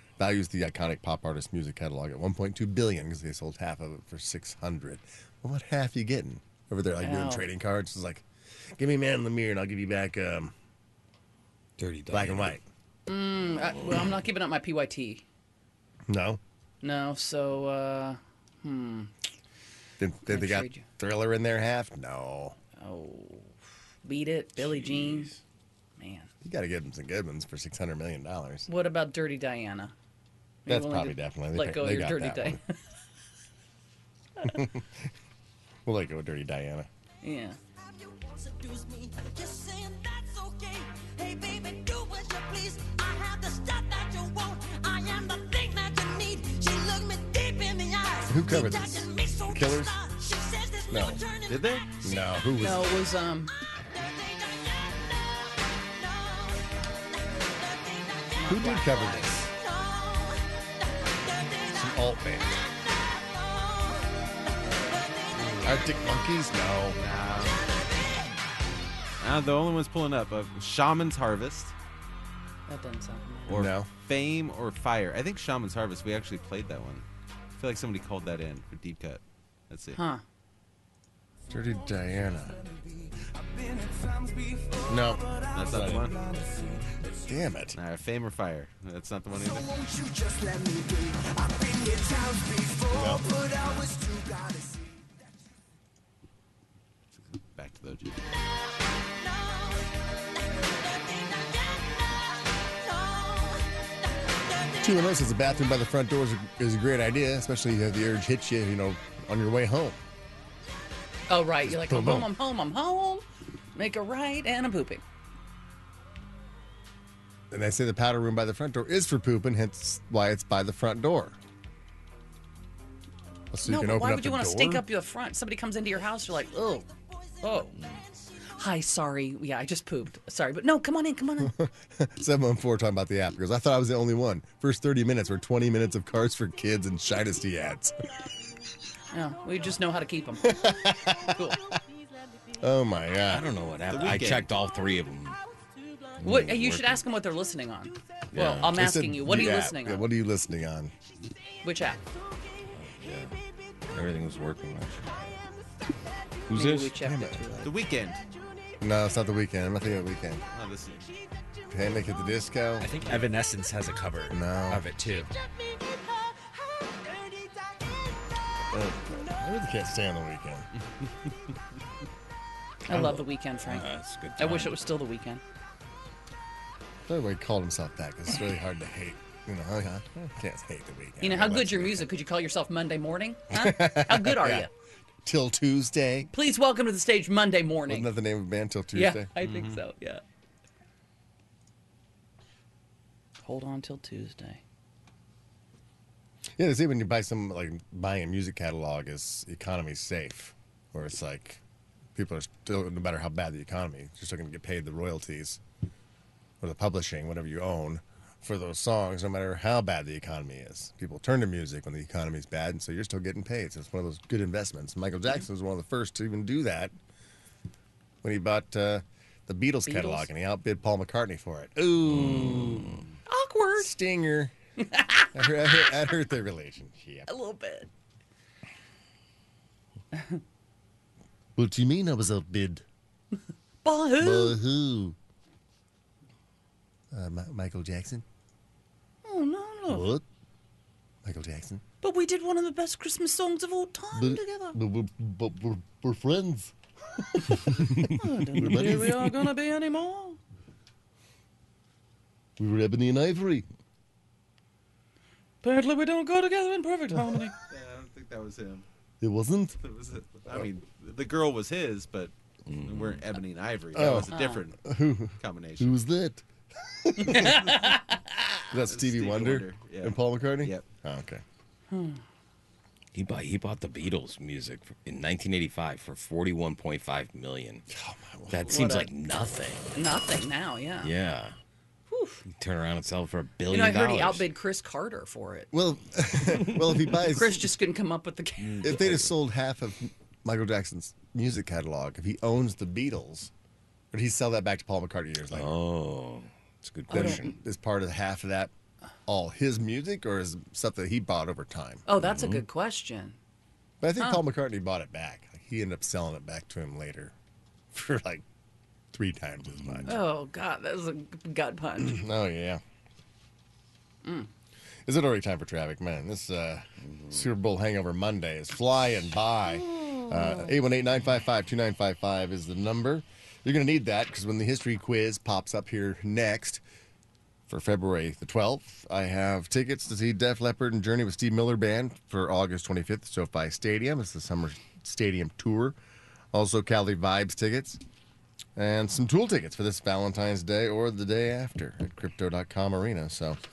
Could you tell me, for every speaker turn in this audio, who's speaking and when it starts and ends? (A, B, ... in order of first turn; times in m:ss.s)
0:00.2-0:10.5 A
0:07.0-0:07.5 B
0:11.8-0:12.6 C
0:12.1-0:12.6 A
0:13.1-0:15.2 B
0:16.1-0:16.4 A
0:16.8-0:19.1 B
0:20.0-0:22.6 A
0:20.2-0:20.8 B
0:22.8-0:25.3 B
0:24.6-0:25.3 C
0:26.0-0:26.3 B
0:26.4-0:28.7 A
0:28.7-0:29.9 B
0:30.6-0:32.6 B
0:30.7-0:32.6 A
0:34.4-0:35.0 A
0:35.8-0:36.9 A
0:37.2-0:37.6 B
0:37.8-0:52.2 D
0:48.3-0:50.0 A
0:50.9-0:51.2 A
0:51.5-0:51.9 E
0:52.0-0:52.9 A
0:52.6-0:53.5 B
0:53.8-0:56.6 D
0:57.4-0:58.3 D
0:58.3-0:59.4 B
0:58.4-0:59.5 A
0:59.5-1:04.3 D
1:01.7-1:02.5 A
1:04.8-1:05.2 D
1:05.4-1:05.7 E
1:05.5-1:07.0 A
1:06.9-1:07.6 E
1:09.2-1:11.7 E
1:12.7-1:13.5 B
1:13.5-1:20.0 E
1:13.5-1:13.9 A
1:19.9-1:20.2 B
1:21.5-1:22.6 A
1:22.6-1:27.0 D
1:24.9-1:26.1 A
1:25.5-1:26.2 E
1:27.2-1:27.8 A
1:27.7-1:29.7 E
1:29.3-1:35.2 D
1:32.9-1:33.2 A
1:37.2-1:38.2 E
1:39.2-1:39.9 D
1:40.9-1:41.8 D
1:42.9-1:43.7 D
1:44.8-1:50.0 A
1:51.3-1:55.0 B
1:51.6-1:52.3 A
1:57.5-2:01.4 A
2:03.5-2:04.8 A
2:03.6-2:06.9 B
2:06.4-2:07.7 D
2:07.4-2:07.8 B
2:08.6-2:11.5 B
2:11.4-2:18.0 A
2:19.1-2:21.6 B
2:20.4-2:21.8 A
2:22.6-2:23.5 A
2:23.3-2:25.4 C
2:23.9-2:24.5 E
2:26.2-2:27.0 C
2:26.2-2:30.1 B
2:28.3-2:28.7 C
2:28.7-2:30.9 A
2:31.6-2:32.0 B
2:32.8-2:33.4 C
2:33.9-2:35.2 C
2:36.5-2:36.9 C
2:36.5-2:37.7 B
2:37.0-2:37.7 A
2:37.6-2:38.2 E
2:38.8-2:40.4 A
2:40.5-2:41.1 E
2:41.7-2:42.9 A
2:42.8-2:45.3 F
2:43.0-2:43.3 E
2:44.3-2:44.9 A
2:45.3-2:47.9 D
2:48.7-2:50.7 A
2:52.9-2:53.9 B
2:52.9-2:54.8 C
2:54.4-2:55.4 B
2:57.0-3:02.1 A
3:01.2-3:04.7 B
3:03.5-3:04.7 A
3:05.2-3:06.3 A
3:06.3-3:08.1 B
3:07.9-3:09.3 A
3:08.9-3:10.2 B
3:09.4-3:09.8 E
3:13.4-3:14.6 B
3:16.6-3:21.6 A
3:22.1-3:25.6 A
3:26.6-3:36.9 A
3:38.2-3:43.0 A
3:39.8-3:40.3 B
3:42.0-3:43.0 C
3:43.3-3:43.9 B
3:43.8-3:44.5 A
3:44.8-3:45.7 B
3:45.3-3:47.3 A
3:47.3-3:47.9 B
3:50.1-3:50.4 B
3:51.6-3:52.8 A
3:53.8-3:54.6 B
3:54.2-3:55.2 A
3:57.1-3:58.2 A
3:59.2-4:00.1 B
3:59.9-4:00.2 A
4:01.2-4:01.8 A
4:02.0-4:04.8 B
4:04.1-4:09.4 A
4:08.0-4:10.4 B
4:12.6-4:13.6 A
4:15.6-4:17.5 B
4:17.1-4:17.4 A
4:17.6-4:18.8 E
4:19.2-4:19.8 A
4:19.8-4:24.8 E
4:22.7-4:23.2 C
4:23.9-4:27.8 A
4:24.3-4:24.6 B
4:25.4-4:26.0 E
4:27.2-4:28.2 B
4:27.3-4:27.9 E
4:28.7-4:31.4 A
4:28.8-4:30.8 E
4:31.9-4:32.2 B
4:33.1-4:37.8 C
4:37.9-4:39.0 A
4:38.5-4:39.9 C
4:38.7-4:39.1 B
4:39.9-4:41.1 B
4:41.0-4:41.6 C
4:42.1-4:42.4 B
4:42.5-4:44.4 C
4:43.7-4:45.7 B
4:45.7-4:47.7 A
4:47.2-4:49.2 B
4:48.7-4:49.1 E
4:48.8-4:53.5 A
4:54.1-4:55.7 A
4:55.5-4:57.6 C
4:57.1-4:58.7 A
4:57.1-4:57.4 B
4:59.3-5:02.0 A
5:02.1-5:03.4 B
5:02.2-5:02.6 C
5:04.0-5:07.3 A
5:04.2-5:04.4 B
5:07.9-5:08.4 A
5:09.1-5:10.2 A
5:10.1-5:12.2 B
5:12.0-5:12.8 A
5:14.2-5:14.5 B
5:15.0-5:26.8 A
5:27.7-5:36.0 A
5:36.5-5:38.0 A
5:38.8-5:43.6 A